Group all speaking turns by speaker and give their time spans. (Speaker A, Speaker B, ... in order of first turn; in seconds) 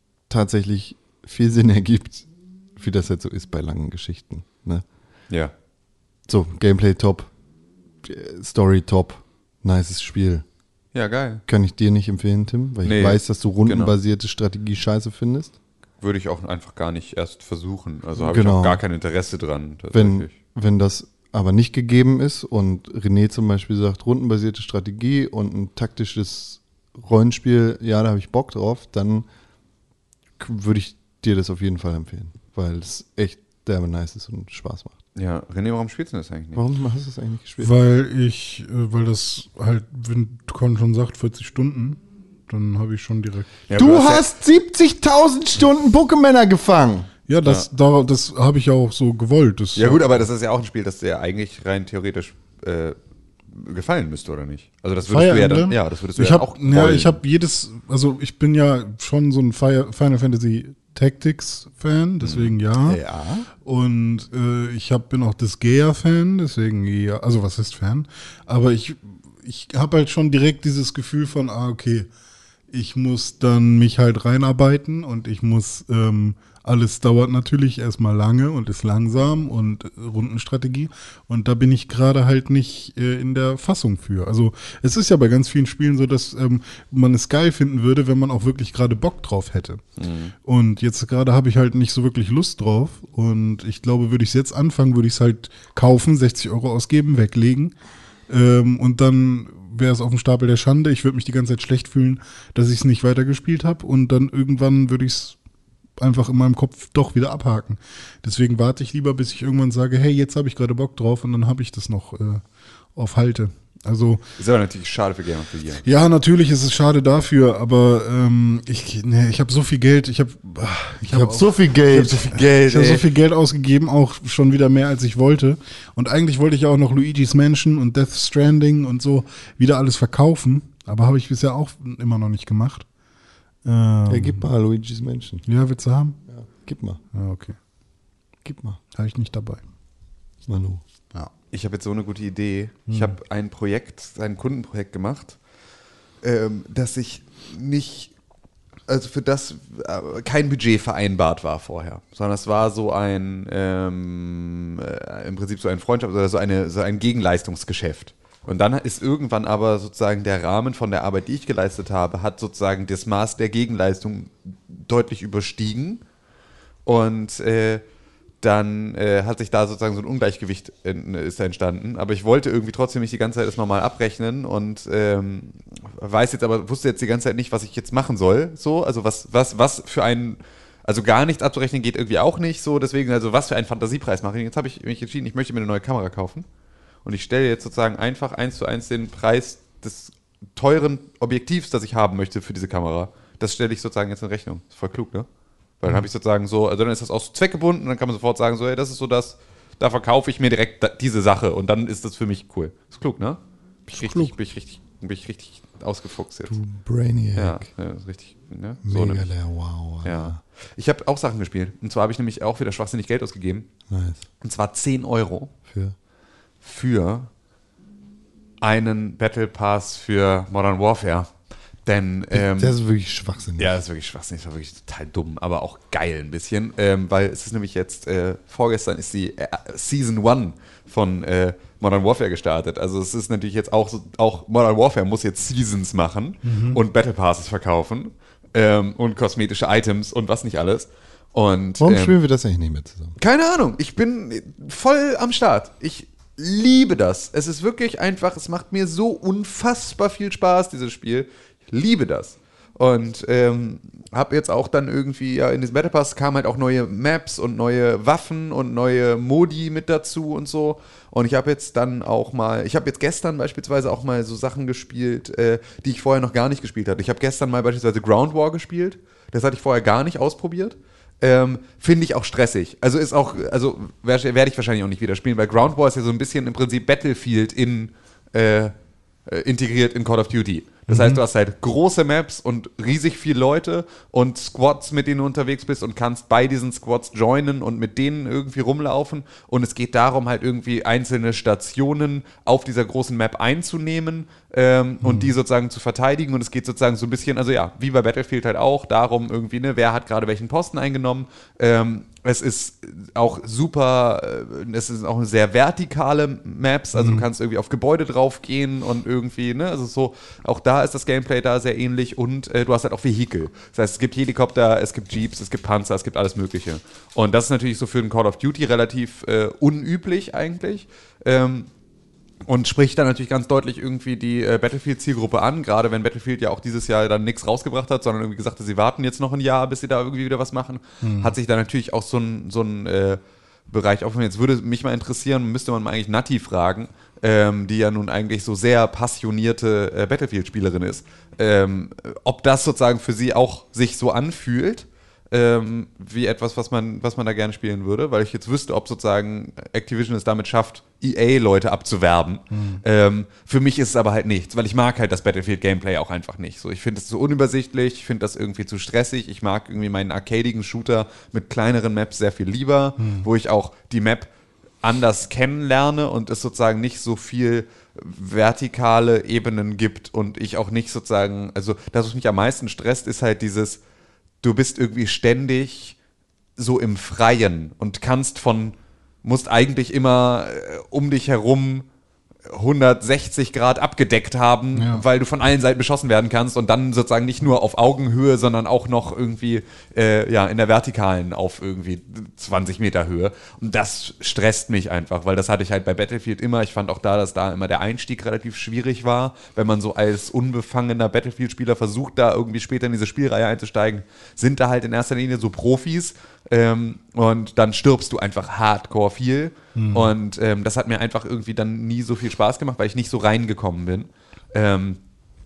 Speaker A: 0.3-4.8, 6.3-7.3, 8.0-10.5, 11.5-15.6, 18.2-18.8, 19.9-29.3, 30.4-35.0, 36.5-37.7, 43.8-47.1, 121.0-122.2, 134.1-135.4, 136.3-137.0, 138.4-138.8, 140.5-140.8, 206.5-207.7, 208.8-210.4, 213.9-214.2, 215.7-216.0, 222.3-223.8, 241.8-243.2
Speaker B: 10.9-11.4, 12.8-13.9, 16.0-20.3, 35.1-36.6, 43.7-44.3, 49.8-53.0, 53.5-57.2, 62.2-63.5, 90.0-90.3, 114.4-115.8, 122.3-123.0, 141.5-145.4, 146.2-148.1, 148.9-166.0, 166.8-167.8, 168.4-186.5, 187.1-195.3, 195.8-206.6, 207.4-209.3, 210.0-213.7, 214.4-215.5, 216.6-217.3, 218.6-221.3, 221.9-222.7, 223.6-242.2, 243.2-278.7, 279.3-321.7, 322.4-364.3, 364.8-373.8, 374.4-376.0, 376.6-381.9, 382.5-415.0
Speaker C: 37.6-43.6, 47.3-50.2, 55.1-63.0, 63.6-72.1, 72.7-89.8, 90.4-97.8, 98.3-105.4, 106.0-112.4, 113.0-114.2, 115.8-132.9, 133.6-134.4, 135.5-136.2, 137.1-137.6, 138.9-139.6, 142.9-143.2, 203.9-204.3, 236.4-236.8, 280.9-281.2, 295.0-295.3, 307.0-307.3, 331.0-331.3, 352.5-352.8, 363.0-363.3, 384.7-385.0, 409.8-410.1